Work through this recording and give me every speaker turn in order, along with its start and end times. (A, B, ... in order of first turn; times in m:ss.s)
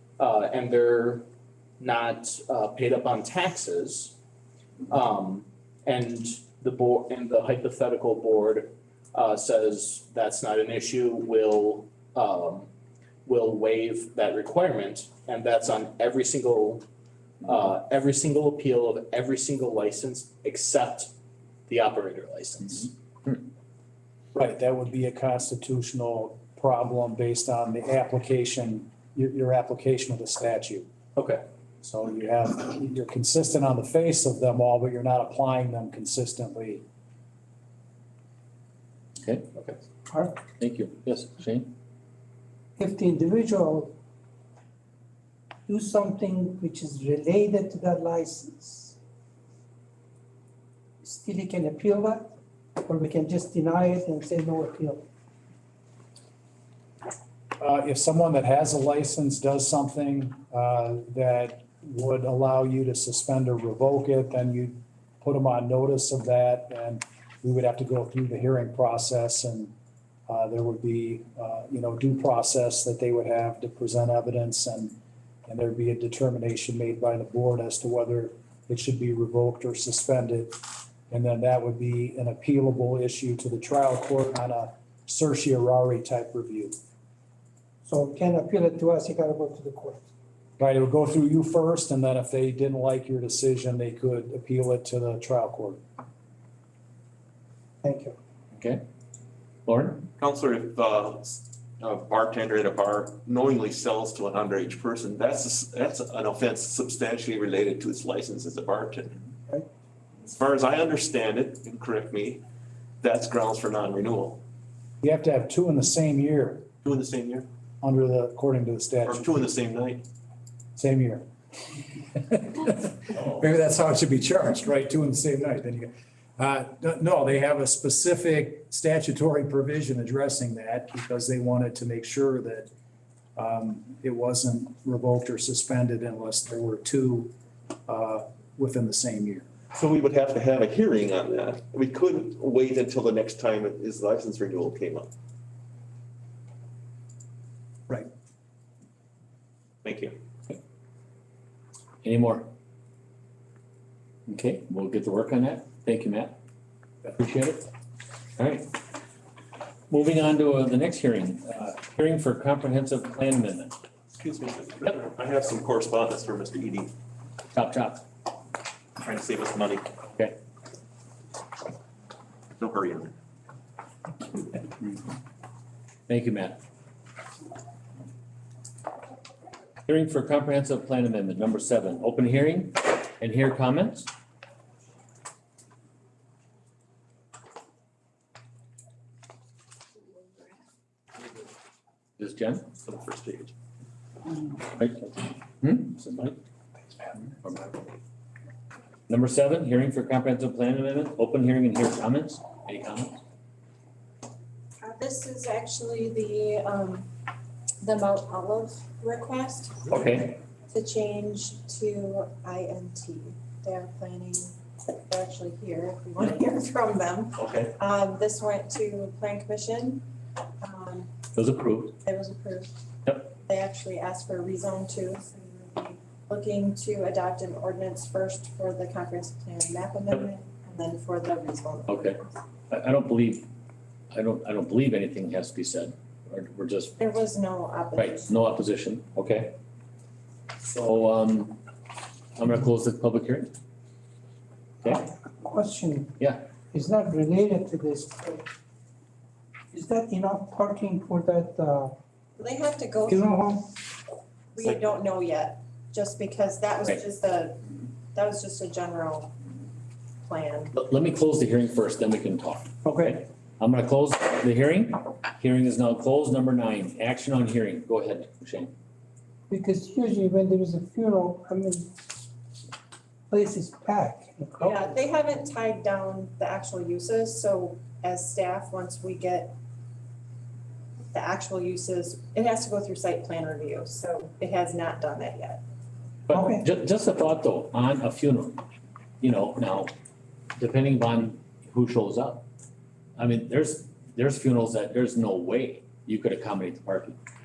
0:00.2-0:01.2 A
0:01.8-0:04.1 A
0:04.9-0:12.7 A
0:13.3-0:16.8 A
0:17.4-0:21.1 A
0:21.7-0:22.9 A
0:24.4-0:30.9 B
0:31.8-0:36.8 B
0:39.2-0:39.5 C
0:40.1-0:40.4 D
0:40.6-0:41.7 C
0:42.8-0:43.9 D
0:45.7-0:49.0 D
0:51.0-0:52.3 D
0:52.8-0:55.0 D
0:57.6-1:09.7 B
1:10.3-1:20.6 B
1:21.1-1:26.8 B
1:27.8-1:30.0 D
1:30.6-1:35.8 B
1:37.8-1:38.2 D
1:38.5-1:38.8 C
1:39.7-1:40.1 C
1:40.2-1:49.2 E
1:50.2-1:52.4 E
1:53.0-1:54.4 E
1:55.0-1:56.7 B
1:56.8-1:57.4 E
1:57.8-1:59.3 B
1:59.1-2:00.0 E
2:00.8-2:01.2 B
2:02.2-2:12.7 B
2:13.4-2:17.3 B
2:17.9-2:19.5 B
2:19.7-2:25.1 E
2:29.8-2:30.2 E
2:32.0-2:32.5 C
2:34.3-2:36.4 C
2:37.1-2:37.7 C
2:38.4-2:38.7 C
2:39.9-2:43.8 C
2:44.2-2:46.9 E
2:47.5-2:48.0 C
2:49.0-2:49.9 E
2:52.6-2:53.1 E
2:56.1-2:56.6 C
2:59.8-3:04.1 C
3:12.2-3:12.7 C
3:12.8-3:13.5 E
3:14.8-3:16.4 C
3:17.4-3:17.9 C
3:19.1-3:23.2 C
3:24.8-3:27.1 F
3:27.8-3:29.8 F
3:29.9-3:30.4 C
3:30.7-3:40.0 F
3:40.6-3:41.1 F
3:41.3-3:42.0 C
3:42.0-3:52.3 F
3:51.9-3:53.5 C
3:54.1-3:57.0 C
3:57.0-3:58.3 F
3:58.0-3:59.6 C
4:00.6-4:01.6 C
4:02.4-4:03.5 C
4:04.8-4:05.1 C
4:04.9-4:06.1 D
4:06.7-4:08.4 D
4:09.7-4:11.9 D
4:12.4-4:13.3 F
4:13.1-4:13.7 D
4:14.6-4:19.3 F
4:20.2-4:20.8 F
4:20.8-4:28.7 C
4:22.8-4:23.2 D
4:29.5-4:31.9 D
4:33.3-4:35.0 D
4:34.6-4:39.6 F
4:41.1-4:45.6 F
4:46.3-4:48.6 C
4:46.3-4:46.6 D
4:49.2-4:49.9 C
4:50.6-4:52.4 C
4:53.2-4:57.2 C